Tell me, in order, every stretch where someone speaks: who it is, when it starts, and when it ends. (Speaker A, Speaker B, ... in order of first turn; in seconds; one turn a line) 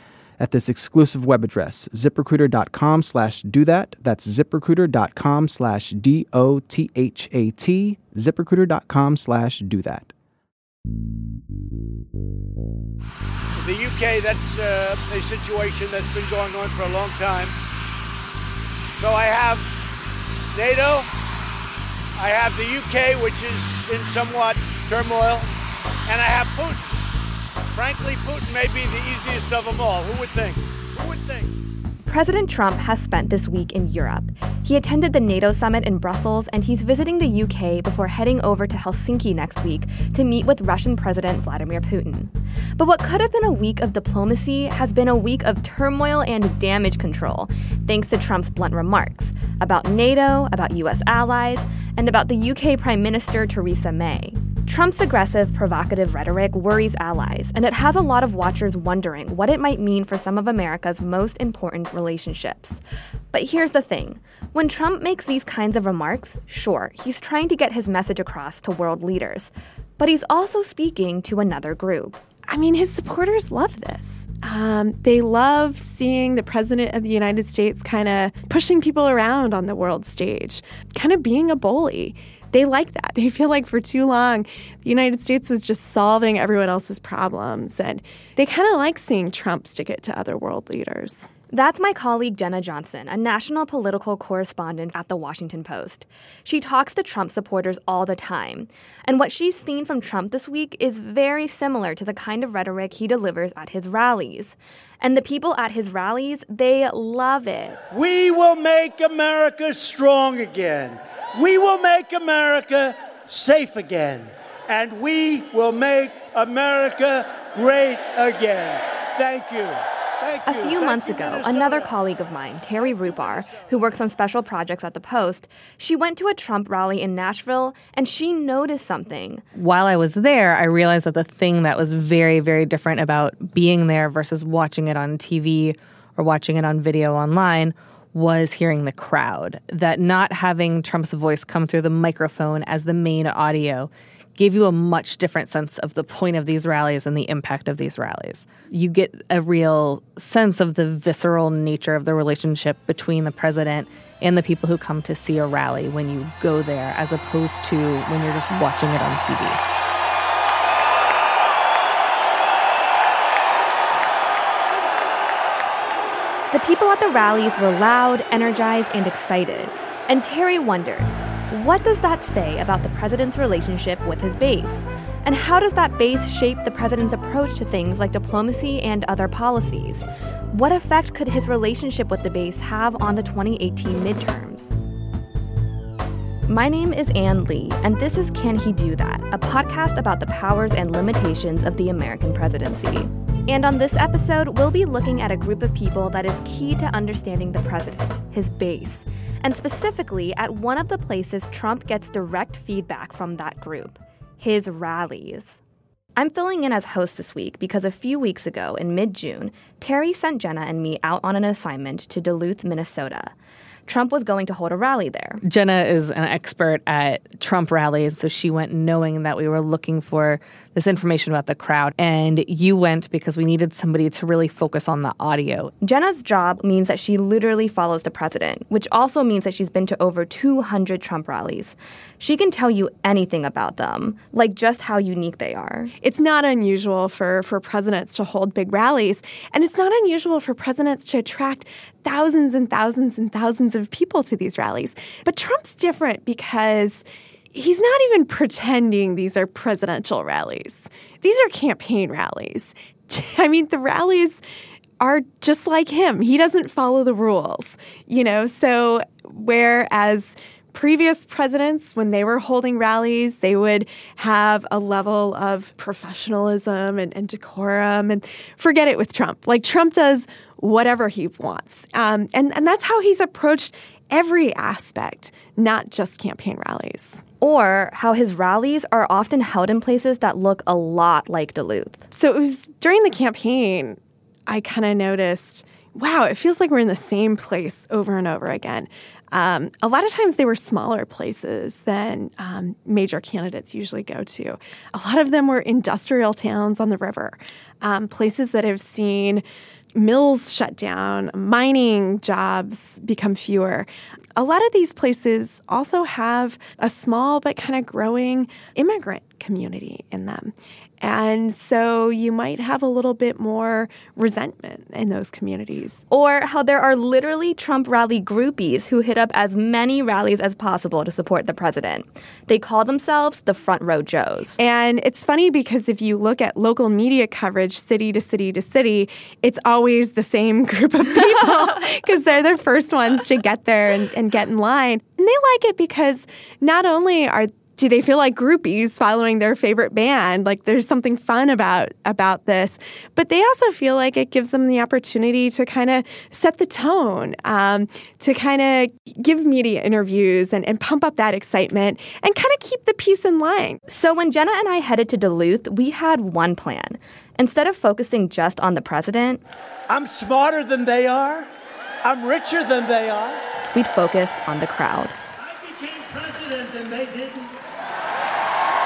Speaker A: 0.4-10.1
Speaker B: 13.6-17.6
Speaker B: 18.9-19.7
Speaker B: 20.5-21.1
Speaker B: 22.1-25.5
Speaker B: 26.1-26.9
Speaker B: 27.7-31.5
Speaker C: 32.0-62.8
Speaker C: 63.3-72.2
Speaker D: 72.5-91.3
Speaker C: 91.5-107.8
Speaker B: 107.9-121.9
Speaker C: 120.4-129.4
Speaker B: 122.8-123.9
Speaker E: 129.6-159.6
Speaker C: 166.5-184.7
Speaker C: 186.5-205.6
Speaker C: 206.2-213.3
Speaker C: 213.9-215.4
Speaker E: 215.5-225.7
Speaker C: 225.8-235.9
Speaker D: 236.0-254.4
Speaker D: 255.0-277.2
Speaker C: 277.4-282.0
Speaker D: 282.1-299.4
Speaker D: 299.9-316.0
Speaker C: 316.1-324.6
Speaker D: 324.6-353.8
Speaker C: 353.9-359.4
Speaker B: 359.9-361.5
Speaker B: 362.0-363.4
Speaker C: 363.7-365.1
Speaker B: 365.4-367.5